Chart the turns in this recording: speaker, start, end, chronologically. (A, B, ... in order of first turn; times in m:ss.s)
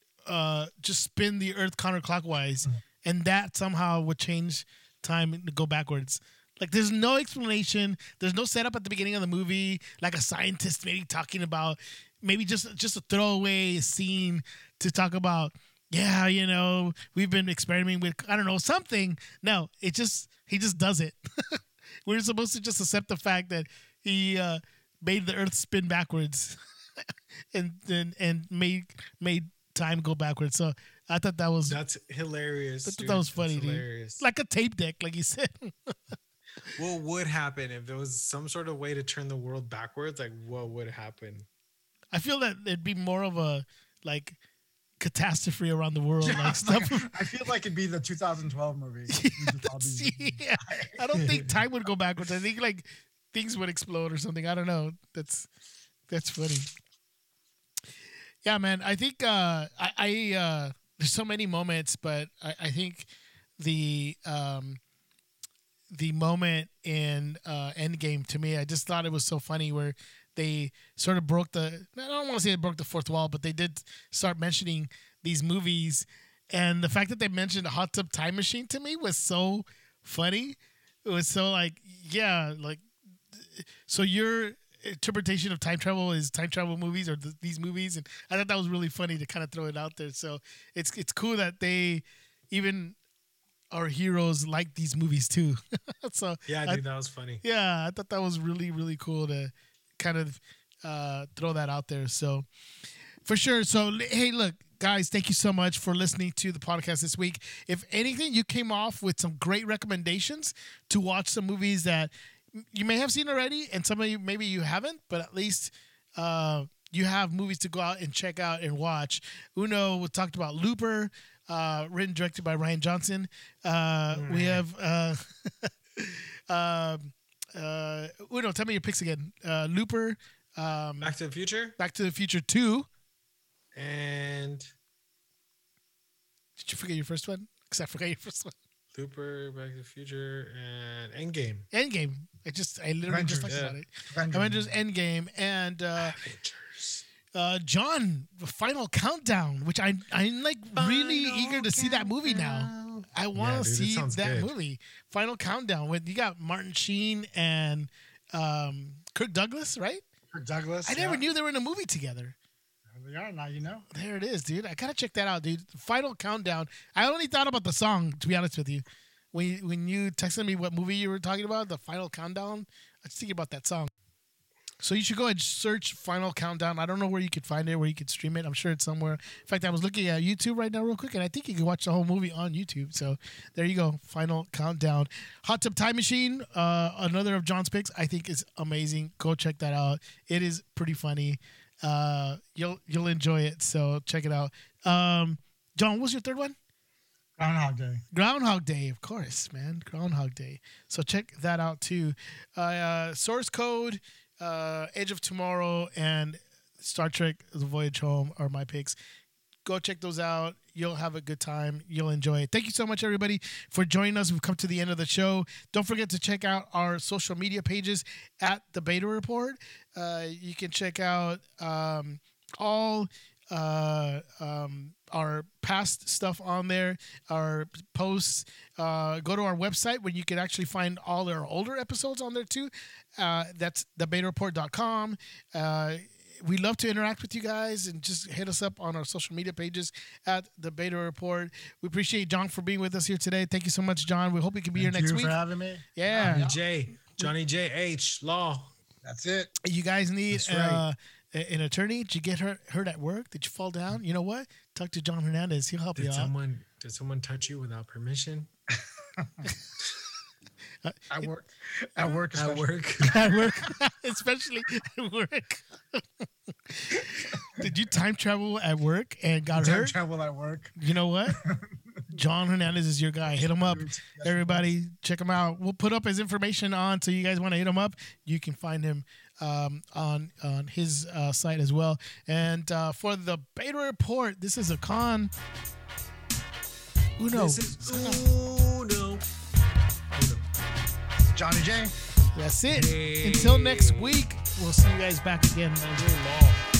0:00.3-0:26.6 A
0:27.5-0:31.8 A
0:31.6-0:34.2 B
0:32.9-0:36.2 A
0:36.8-0:41.5 B
0:42.1-0:44.4 A
0:45.0-0:47.3 A
0:46.2-0:51.0 C
0:49.1-0:55.5 A
0:51.1-0:51.5 B
0:56.1-0:56.7 A
0:58.4-1:04.8 A
1:05.9-1:33.0 A
1:33.7-1:36.8 A
1:36.5-1:37.4 B
1:37.4-1:42.5 A
1:43.2-2:11.1 A
2:04.1-2:04.6 B
2:11.0-2:11.8 B
2:11.8-2:12.9 A
2:13.7-2:14.7 B
2:16.6-2:18.5 A
2:18.9-2:21.7 B
2:21.7-2:26.2 A
2:23.1-2:23.5 C
2:23.5-2:23.8 B
2:24.1-2:24.7 C
2:26.0-2:27.0 B
2:27.3-2:40.0 A
2:30.8-2:34.5 B
2:40.3-2:41.2 C
2:40.9-2:42.4 A
2:42.9-2:43.9 C
2:43.9-2:53.9 A
2:54.8-3:16.6 A
3:17.4-3:18.0 C
3:18.1-3:29.0 A
3:29.6-4:05.4 A
4:04.8-4:06.6 C
4:06.0-4:06.5 A
4:06.2-4:08.7 B
4:09.0-4:09.5 C
4:09.6-4:16.3 A
4:10.3-4:10.8 C
4:16.0-4:18.5 B
4:18.8-4:19.4 C
4:20.8-4:21.3 A
4:21.1-4:23.3 C
4:22.3-4:23.3 B
4:23.1-4:30.0 A
4:27.1-4:27.7 C
4:29.6-4:30.8 C
4:30.8-4:31.4 A
4:31.3-4:31.8 C
4:32.1-4:45.3 A
4:33.4-4:34.7 C
4:47.2-4:48.2 A
4:47.3-4:49.2 B
4:50.2-4:50.5 B
4:51.2-4:51.9 C
4:52.4-4:55.9 A
4:52.7-4:54.2 B
4:55.8-4:56.6 B